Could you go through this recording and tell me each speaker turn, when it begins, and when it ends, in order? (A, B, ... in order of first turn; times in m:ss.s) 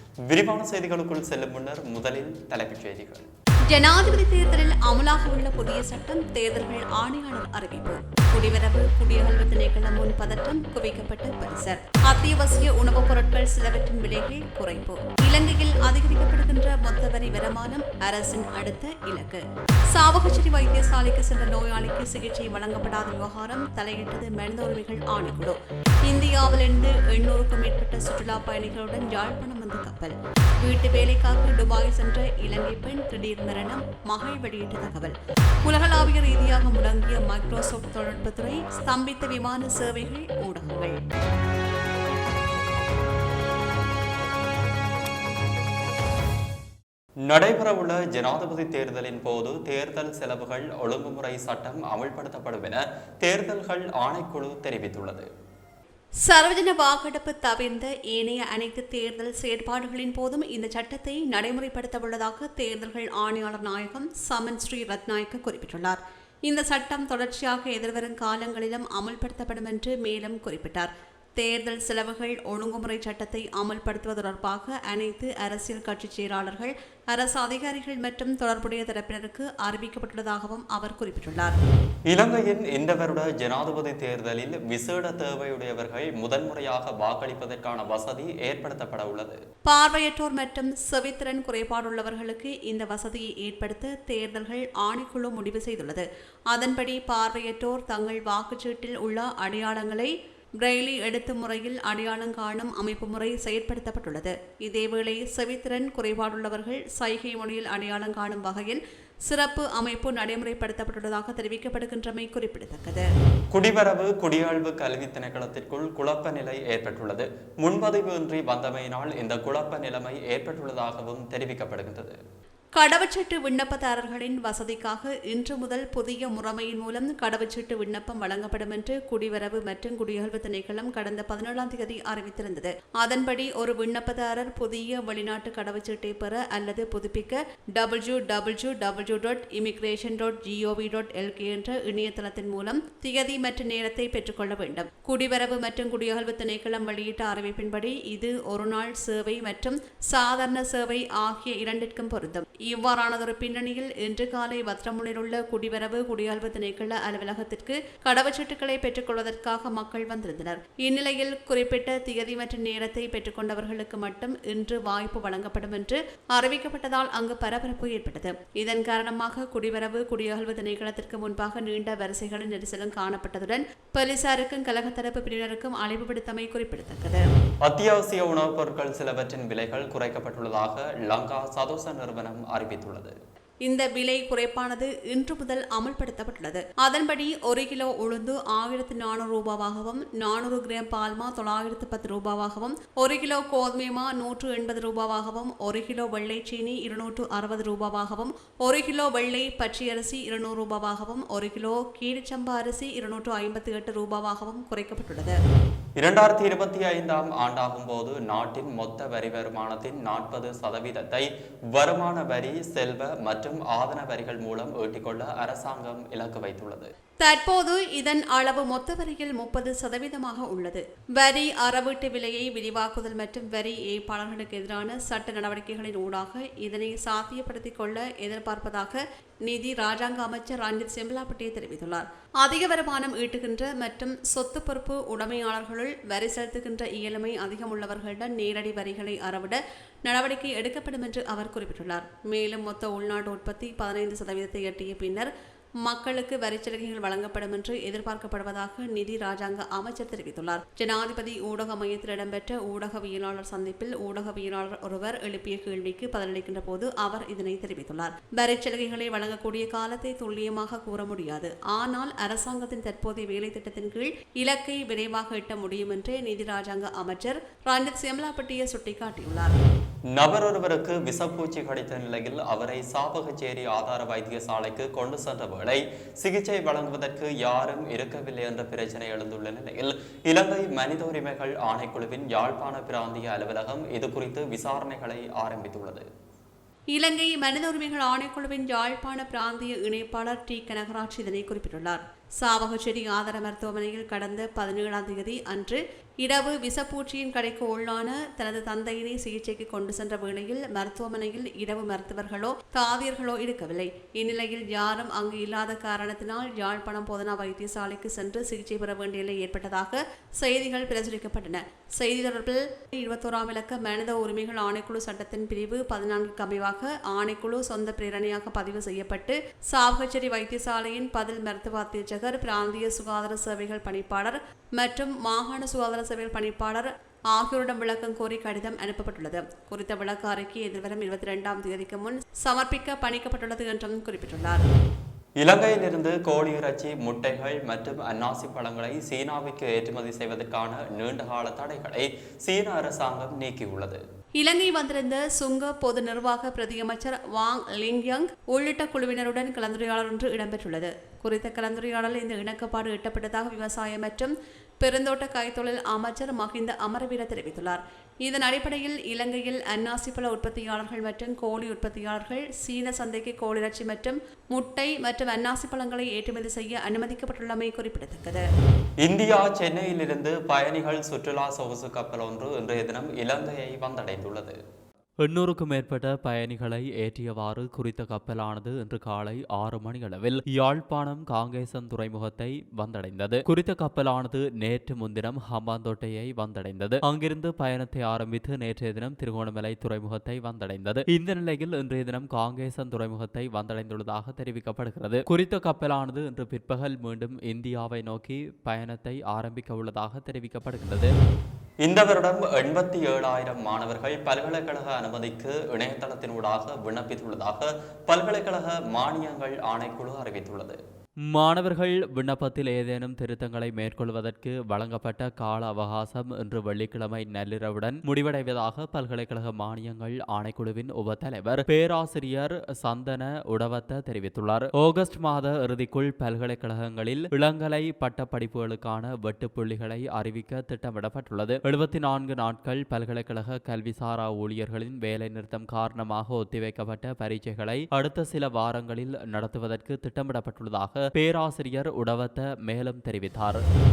0:00.3-0:03.3 A
0:03.7-0:19.4 B
0:19.9-0:25.6 B
0:26.1-0:41.0 B
0:47.3-0:55.3 A
0:56.3-1:21.6 B
1:22.1-1:29.4 A
1:29.7-1:40.1 B
1:40.6-1:53.1 B
1:53.5-2:02.2 A
2:02.8-2:57.2 B
2:57.6-3:03.2 A
3:03.7-3:25.4 B
3:26.0-3:36.9 A
3:37.2-4:05.3 B
4:05.9-4:29.6 B
4:30.1-4:46.1 A
4:47.0-5:34.6 B
5:35.4-5:44.0 A
5:44.4-6:08.4 B
6:09.0-6:14.6 A
6:15.2-6:41.1 C
6:41.8-6:50.8 A
6:51.3-7:23.6 C